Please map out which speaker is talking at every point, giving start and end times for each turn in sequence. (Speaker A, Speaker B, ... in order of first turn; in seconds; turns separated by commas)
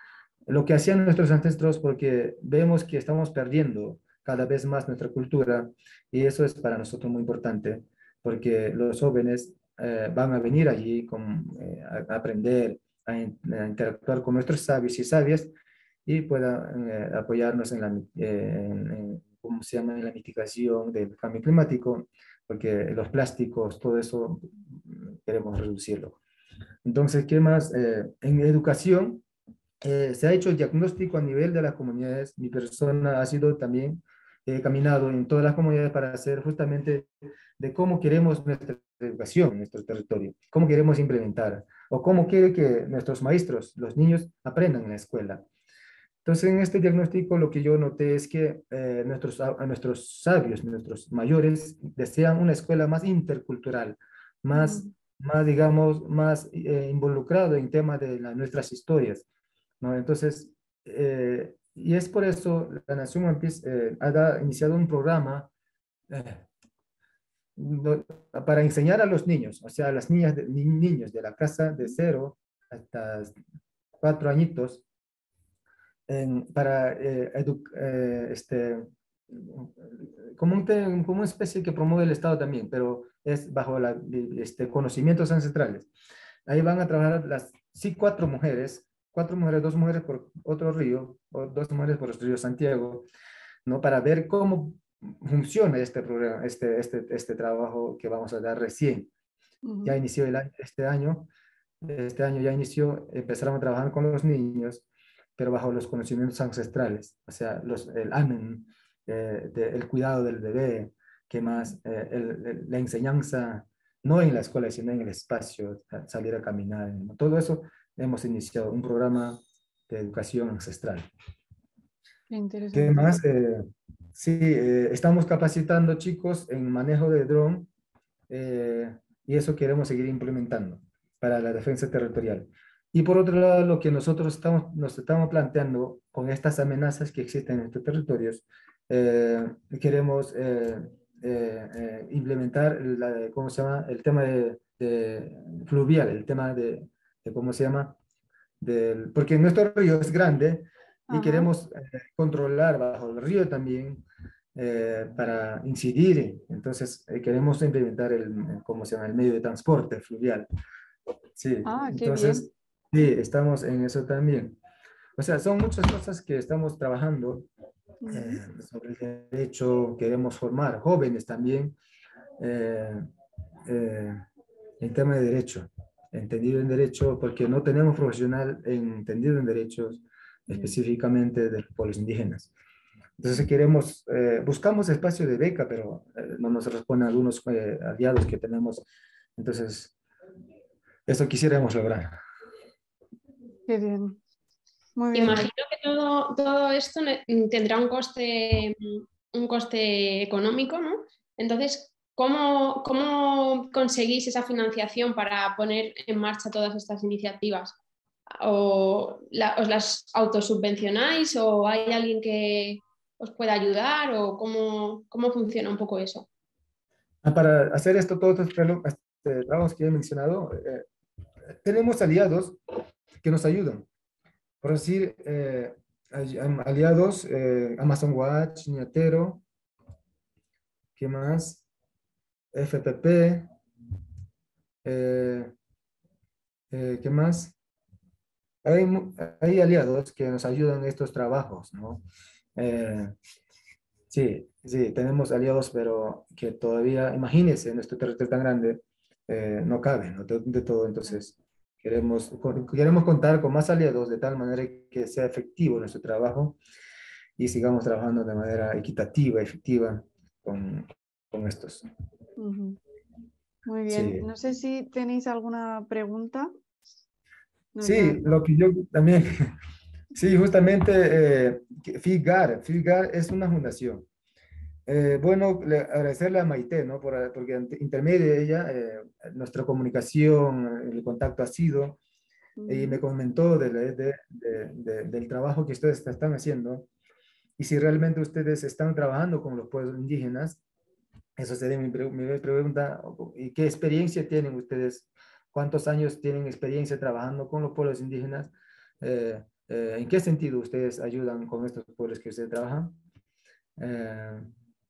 Speaker A: 0.5-15.5, Speaker A: 16.1-26.2, Speaker A: 26.8-29.2, Speaker A: 29.8-37.1, Speaker A: 37.6-45.5, Speaker A: 46.2-59.3, Speaker B: 54.5-54.9, Speaker A: 59.8-65.5, Speaker A: 66.1-66.5, Speaker A: 67.6-73.3, Speaker A: 74.0-74.8, Speaker A: 76.1-85.9, Speaker A: 86.5-93.1, Speaker A: 93.7-99.1, Speaker B: 99.6-100.0, Speaker A: 99.8-101.3, Speaker A: 101.8-104.8, Speaker A: 105.4-121.1, Speaker B: 122.3-123.2, Speaker A: 122.7-127.7, Speaker A: 128.3-148.0, Speaker A: 148.6-154.0, Speaker B: 151.1-151.5, Speaker A: 154.6-160.5, Speaker A: 161.4-164.6, Speaker B: 161.7-162.5, Speaker A: 165.2-167.5, Speaker B: 168.0-168.4, Speaker A: 168.1-171.8, Speaker A: 172.4-173.1, Speaker A: 173.7-174.2, Speaker A: 174.8-182.5, Speaker A: 183.2-188.8, Speaker A: 189.4-189.9, Speaker A: 191.1-192.2, Speaker B: 193.7-194.2, Speaker B: 195.0-195.5, Speaker C: 195.1-207.8, Speaker C: 208.4-216.3, Speaker A: 217.2-220.8, Speaker A: 221.5-222.6, Speaker A: 223.2-223.9, Speaker A: 224.6-229.4, Speaker A: 231.0-231.7, Speaker A: 232.5-233.5, Speaker A: 234.8-235.5, Speaker A: 236.7-237.6, Speaker A: 238.6-242.0, Speaker A: 242.6-243.2, Speaker A: 244.1-256.6, Speaker A: 257.4-261.8, Speaker B: 262.4-262.8, Speaker B: 263.7-266.5, Speaker A: 263.9-264.3, Speaker B: 267.8-268.2, Speaker A: 267.8-269.5, Speaker A: 270.1-274.1, Speaker A: 274.9-282.0, Speaker B: 282.6-283.0, Speaker A: 282.7-286.9, Speaker A: 287.6-290.6, Speaker A: 291.4-302.9, Speaker A: 303.8-304.5